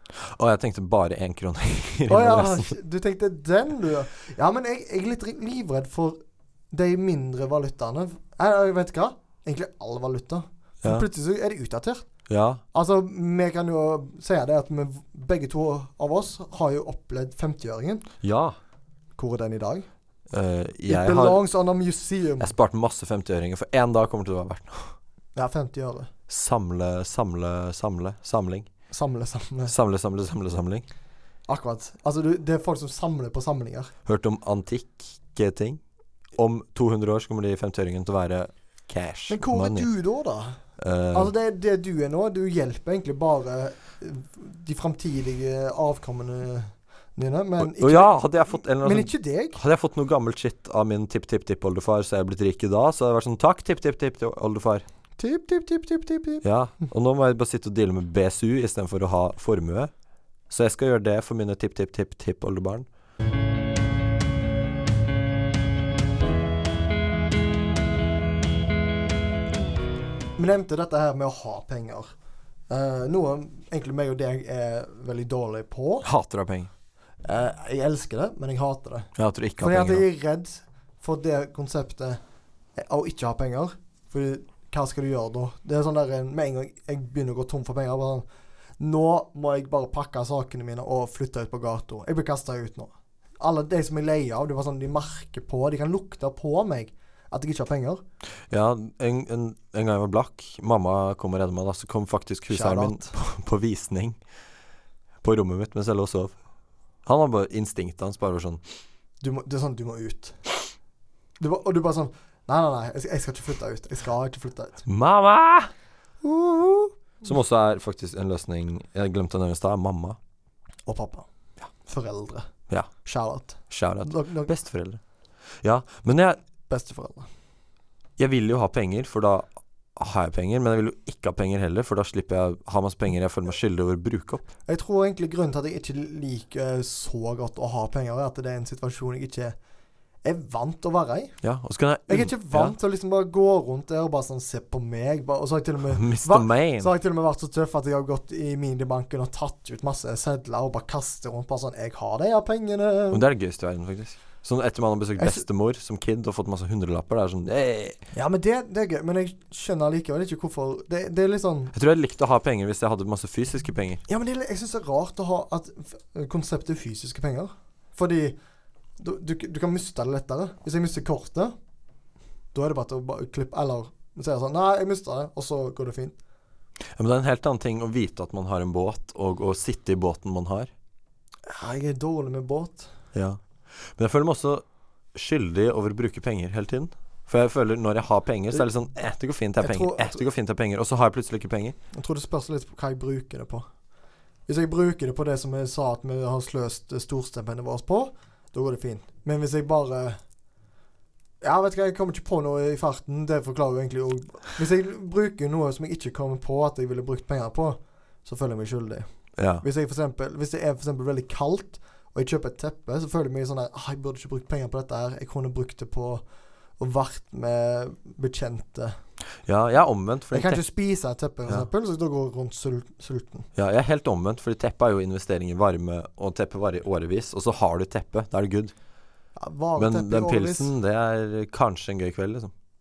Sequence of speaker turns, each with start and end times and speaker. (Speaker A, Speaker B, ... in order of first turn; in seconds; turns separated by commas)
Speaker A: 0.2-2.8, Speaker B: 2.1-6.2, Speaker B: 6.7-12.1, Speaker A: 12.3-12.6, Speaker B: 12.7-18.0, Speaker A: 18.2-18.6, Speaker B: 19.2-19.9, Speaker A: 20.3-21.4, Speaker B: 20.9-22.5, Speaker A: 22.4-24.9, Speaker B: 25.4-26.1, Speaker A: 26.3-28.7, Speaker B: 28.9-29.7, Speaker A: 29.7-30.9, Speaker B: 31.5-33.9, Speaker A: 34.1-35.8, Speaker A: 36.4-39.9, Speaker B: 39.3-40.6, Speaker A: 40.8-41.3, Speaker B: 41.1-49.6, Speaker A: 47.6-54.9, Speaker B: 55.2-56.4, Speaker A: 56.4-59.9, Speaker A: 60.5-62.9, Speaker B: 70.4-72.1, Speaker B: 72.7-76.1, Speaker A: 76.0-76.7, Speaker B: 77.2-82.2, Speaker A: 79.2-80.1, Speaker B: 82.8-88.2, Speaker B: 88.8-98.0, Speaker A: 98.5-104.2, Speaker B: 102.5-103.1, Speaker A: 105.2-106.4, Speaker A: 107.1-108.6, Speaker B: 109.2-110.7, Speaker B: 111.4-114.8, Speaker A: 114.9-115.7, Speaker B: 116.2-116.9, Speaker A: 117.2-120.2, Speaker B: 120.9-121.3, Speaker B: 121.9-122.5, Speaker B: 123.0-124.5, Speaker A: 123.7-125.0, Speaker A: 125.6-126.4, Speaker B: 126.7-127.3, Speaker A: 128.2-134.5, Speaker B: 134.7-139.6, Speaker B: 140.2-141.4, Speaker A: 141.4-142.8, Speaker B: 142.1-153.3, Speaker A: 145.9-146.9, Speaker A: 153.1-158.0, Speaker B: 155.2-155.4, Speaker B: 158.1-161.7, Speaker A: 161.7-164.0, Speaker B: 164.1-168.4, Speaker B: 169.0-171.5, Speaker B: 172.5-176.2, Speaker A: 177.0-180.7, Speaker B: 181.5-182.9, Speaker A: 183.1-184.6, Speaker A: 185.2-191.8, Speaker B: 189.6-190.2, Speaker B: 191.9-193.7, Speaker B: 194.5-200.2, Speaker B: 201.4-209.1, Speaker A: 209.4-209.7, Speaker B: 209.6-216.2, Speaker B: 216.8-219.0, Speaker A: 219.5-220.6, Speaker B: 220.3-223.5, Speaker A: 223.6-228.7, Speaker B: 229.4-230.7, Speaker A: 229.8-232.5